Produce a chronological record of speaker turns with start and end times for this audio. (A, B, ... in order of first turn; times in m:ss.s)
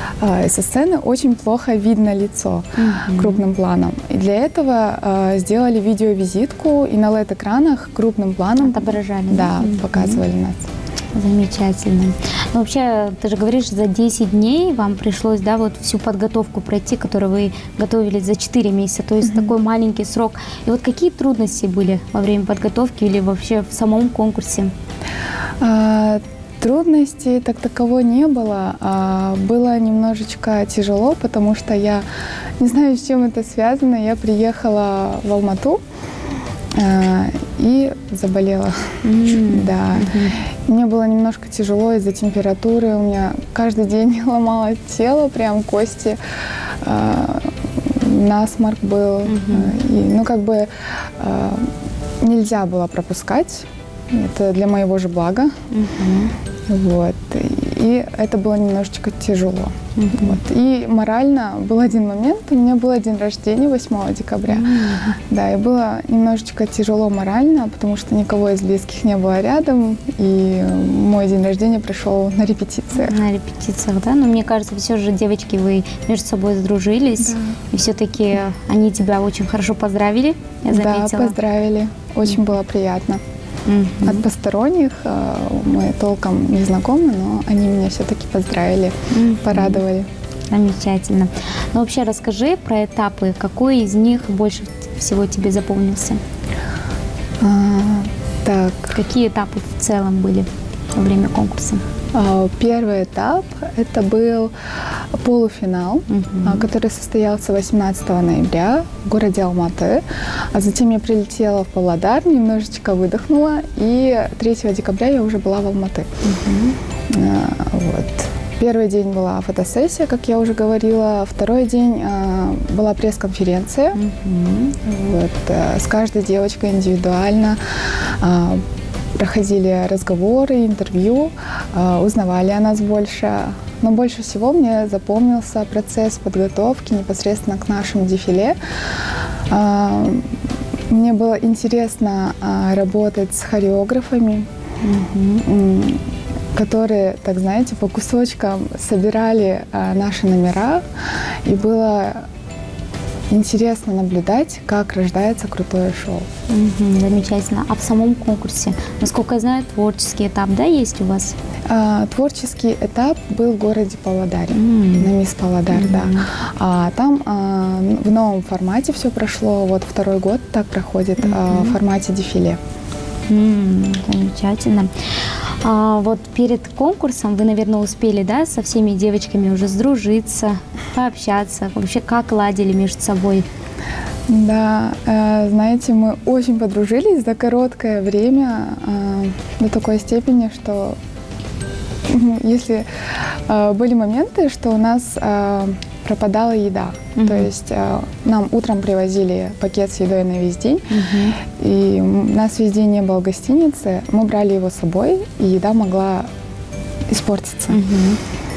0:00.2-0:10.6 A
0:02.8-0:03.4 B
0:08.6-0:10.2 B
0:11.1-0:24.7 B
0:19.2-0:19.5 A
0:25.6-0:32.0 A
0:32.6-0:35.8 A
0:36.7-0:46.2 A
0:39.0-0:40.4 B
0:46.8-0:51.7 A
0:49.2-0:49.7 B
0:52.2-0:55.6 A
0:55.7-0:56.3 B
0:56.7-1:04.7 A
1:00.0-1:00.4 B
1:04.5-1:05.2 B
1:05.3-1:13.2 A
1:13.0-1:21.4 B
1:17.2-1:17.6 A
1:20.7-1:23.2 A
1:23.6-1:24.2 B
1:24.0-1:30.1 A
1:29.1-1:29.8 B
1:30.5-1:36.2 B
1:37.4-1:39.0 A
1:38.9-1:41.8 B
1:42.1-1:44.5 A
1:45.1-1:56.1 A
1:46.1-1:46.7 B
1:56.2-1:56.8 B
1:57.1-2:04.0 A
2:03.9-2:04.8 B
2:04.8-2:08.6 A
2:09.1-2:24.5 A
2:24.8-2:25.4 B
2:25.4-2:32.3 A
2:33.3-2:36.3 A
2:36.5-2:41.3 B
2:41.7-2:52.6 A
2:44.5-2:45.1 B
2:45.7-2:46.3 B
2:51.2-2:51.8 B
2:53.3-2:54.9 B
2:55.6-3:03.4 B
3:04.3-3:11.0 A
3:12.1-3:20.9 A
3:17.2-3:17.5 B
3:20.9-3:21.4 B
3:21.4-3:26.3 A
3:27.1-3:27.8 A
3:27.7-3:28.2 B